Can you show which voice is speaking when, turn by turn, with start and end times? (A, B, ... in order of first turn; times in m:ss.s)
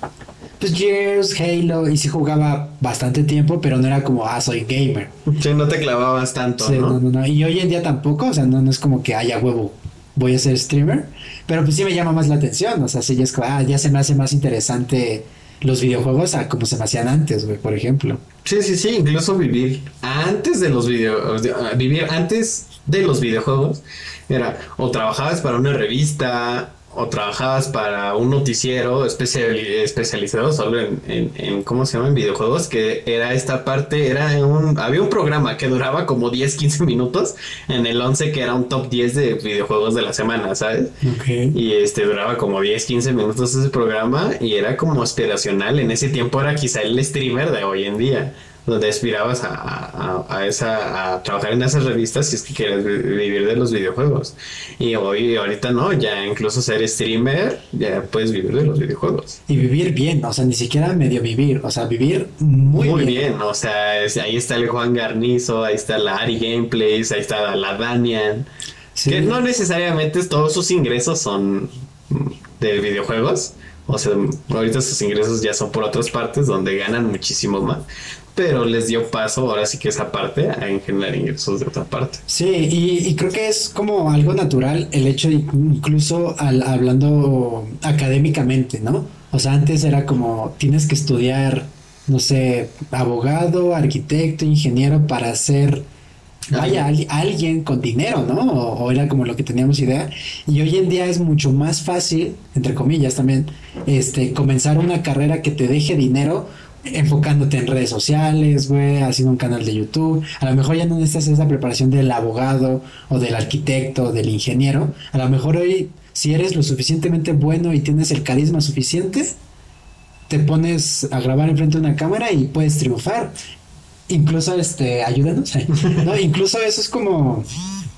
0:00.6-0:05.1 A
0:05.3-0:07.0 B
0:06.6-0:18.2 A
0:18.4-0:41.0 B
0:41.0-0:41.6 A
0:41.5-0:59.4 B
0:59.5-1:03.3 A
1:02.7-1:08.5 B
1:08.9-1:09.4 A
1:09.1-1:22.2 B
1:22.3-1:35.8 A
1:36.5-1:36.8 B
1:36.5-1:59.3 A
2:00.3-2:03.3 A
2:04.1-2:07.5 A
2:05.8-2:06.1 B